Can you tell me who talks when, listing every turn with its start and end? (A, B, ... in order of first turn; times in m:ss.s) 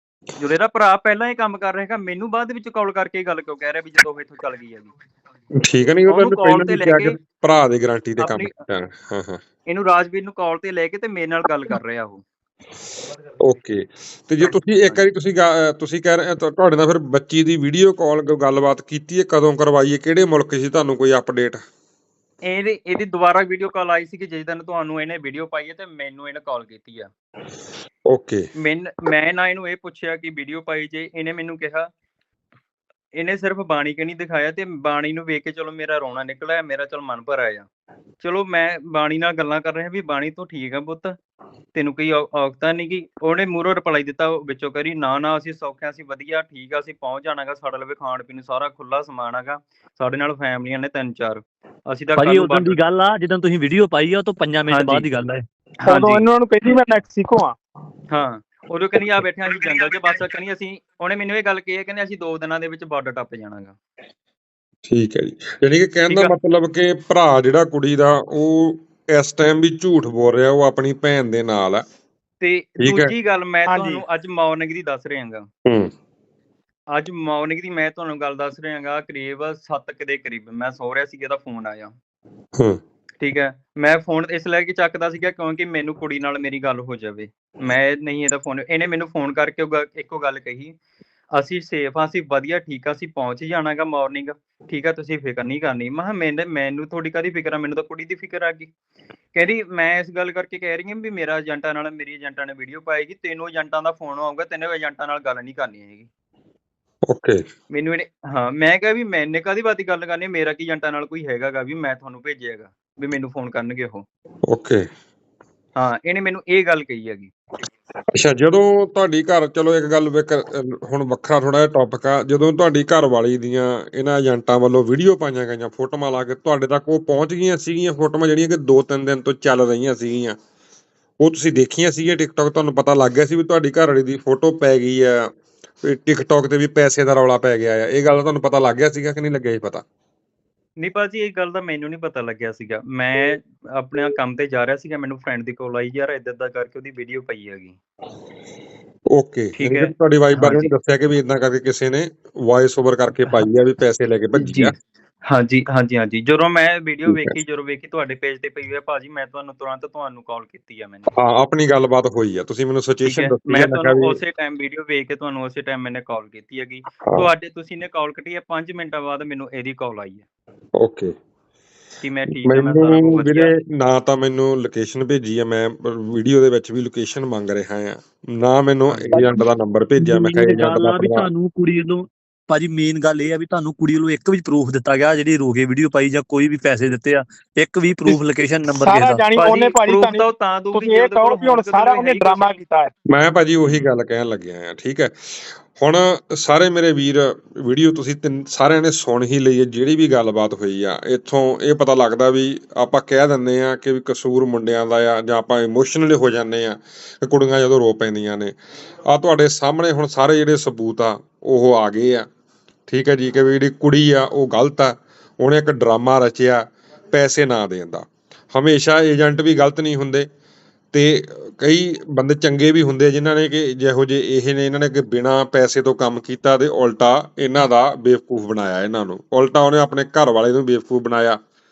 0:00.4-0:04.9 A
0:05.6-0:09.4 B
0:06.1-0:07.2 A
0:08.2-0:08.5 A
0:09.6-0:12.2 A
0:13.4-0:21.6 B
0:14.4-0:15.0 A
0:22.4-0:27.1 A
0:28.1-0:28.5 B
0:28.6-0:31.9 A
0:33.2-0:37.7 A
0:38.2-0:41.2 A
0:41.8-0:52.8 A
0:52.2-0:55.4 C
0:54.7-0:55.1 A
0:55.8-0:56.2 A
0:55.9-0:57.6 D
0:58.1-1:03.8 A
1:04.9-1:11.8 B
1:06.1-1:06.3 A
1:12.4-1:15.5 A
1:12.8-1:13.1 B
1:13.7-1:14.0 D
1:15.6-1:15.9 B
1:16.9-1:21.9 A
1:23.2-1:30.8 A
1:31.3-1:38.7 A
1:39.4-1:46.1 A
1:47.1-1:47.4 B
1:47.7-1:54.0 A
1:54.5-1:54.8 B
1:55.8-1:57.3 A
1:58.1-2:10.4 B
2:11.2-2:15.3 B
2:15.8-2:19.8 B
2:20.8-2:27.8 A
2:29.1-2:34.7 B
2:29.6-2:30.7 A
2:34.4-2:41.1 A
2:37.1-2:37.4 B
2:41.1-2:44.2 B
2:43.0-2:50.2 A
2:47.0-2:47.3 B
2:50.8-2:51.1 B
2:52.0-2:53.5 A
2:52.4-3:01.3 B
2:58.9-2:59.2 A
3:00.0-3:09.2 C
3:08.8-3:12.9 D
3:09.4-3:12.6 A
3:13.1-3:28.6 B
3:29.1-3:32.3 B
3:32.9-3:40.3 B
3:40.9-3:51.4 B